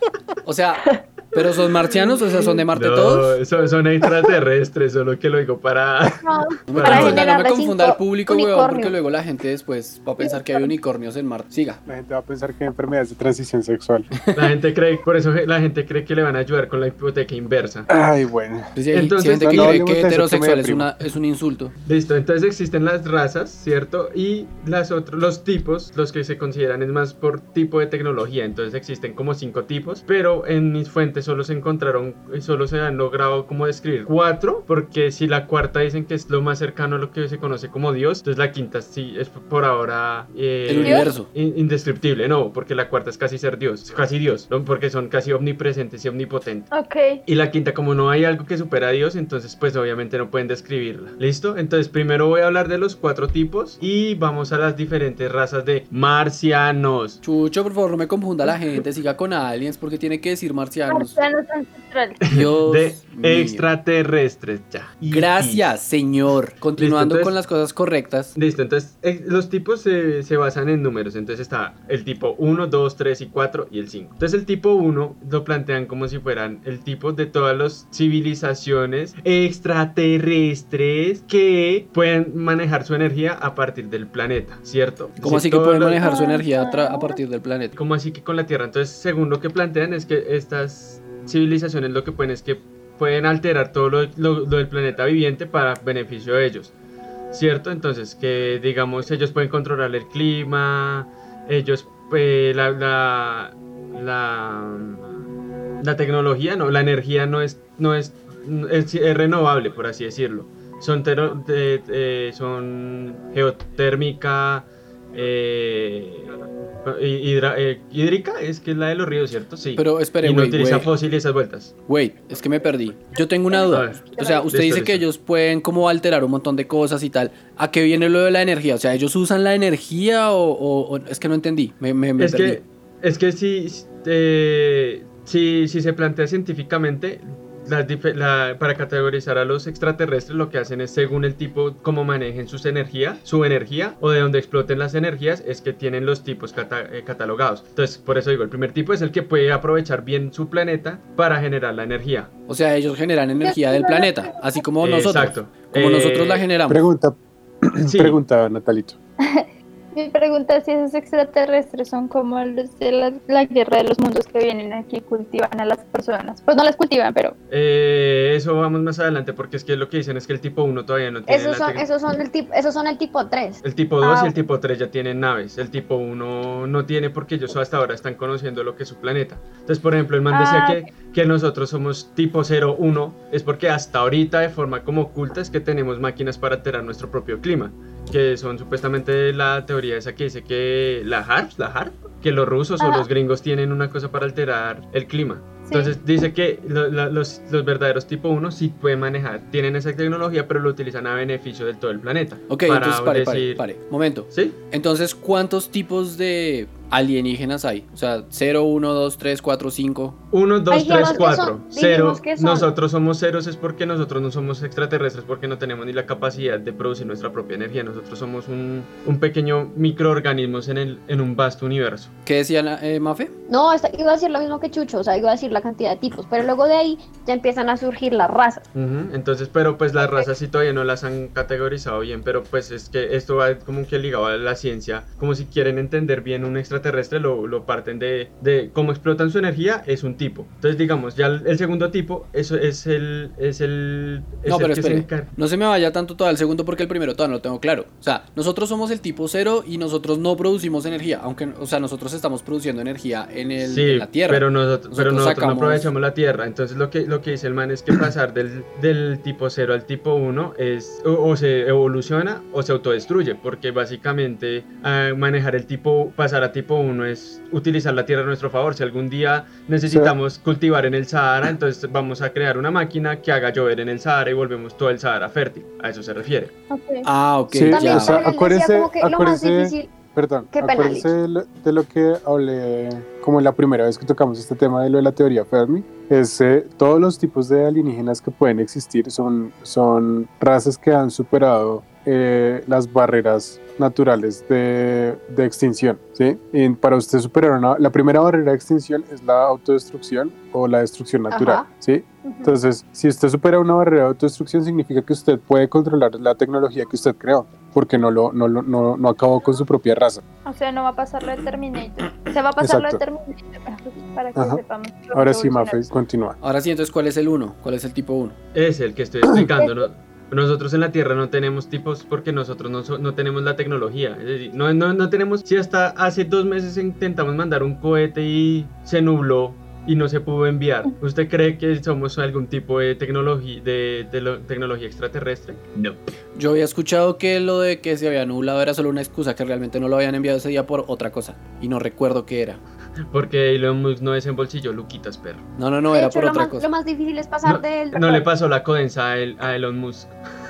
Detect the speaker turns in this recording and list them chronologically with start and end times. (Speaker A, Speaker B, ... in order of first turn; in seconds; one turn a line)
Speaker A: 0.4-3.4
Speaker B: 2.7-7.3
Speaker C: 6.1-9.0
Speaker A: 6.7-11.8
Speaker D: 11.9-14.1
Speaker B: 14.3-17.9
Speaker D: 17.9-18.7
Speaker A: 18.8-21.7
Speaker B: 18.9-19.8
Speaker D: 19.4-20.9
Speaker B: 21.9-46.7
Speaker A: 40.7-41.3
Speaker E: 40.8-41.1
Speaker E: 46.7-47.2
Speaker B: 47.3-57.2
Speaker A: 57.2-61.2
Speaker E: 60.9-62.2
Speaker A: 62.3-63.6
Speaker B: 62.3-65.7
Speaker A: 65.1-68.3
Speaker B: 66.8-67.3
Speaker B: 68.3-86.0
Speaker A: 85.2-87.8
Speaker E: 86.0-87.2
Speaker B: 87.8-96.7
Speaker B: 97.3-105.2
Speaker B: 105.8-121.7
Speaker A: 119.8-120.9
Speaker A: 121.9-132.6
Speaker E: 122.6-124.5
Speaker B: 123.7-125.0
Speaker B: 132.2-152.3
Speaker A: 152.5-156.8
Speaker E: 153.4-154.7
Speaker B: 154.8-156.4
Speaker D: 156.7-159.0
Speaker B: 157.8-158.2
Speaker E: 159.2-167.3
Speaker B: 167.5-171.9
Speaker C: 171.3-173.6
Speaker B: 173.6-203.6
Speaker E: 174.0-174.3
Speaker E: 180.3-180.9
Speaker E: 195.7-195.9
Speaker A: 202.5-210.2
Speaker B: 204.3-204.6
Speaker B: 210.3-222.1
Speaker C: 210.7-212.7
Speaker A: 222.3-223.3
Speaker C: 223.5-228.6
Speaker B: 228.7-245.3
Speaker C: 230.0-230.3
Speaker A: 244.5-255.9
Speaker B: 253.6-276.5
Speaker D: 269.9-270.2
Speaker E: 276.7-277.1
Speaker A: 277.1-278.2
Speaker D: 277.5-310.2
Speaker C: 277.7-279.9
Speaker C: 280.5-281.1
Speaker C: 301.3-301.7
Speaker E: 302.2-302.6
Speaker E: 310.5-315.8
Speaker D: 312.6-313.0
Speaker D: 314.4-314.6
Speaker D: 315.1-316.4
Speaker A: 316.4-318.4
Speaker B: 318.5-336.0
Speaker D: 319.2-319.5
Speaker A: 336.4-342.6
Speaker B: 343.1-345.4
Speaker A: 345.6-346.7
Speaker C: 345.9-348.3
Speaker B: 347.4-350.1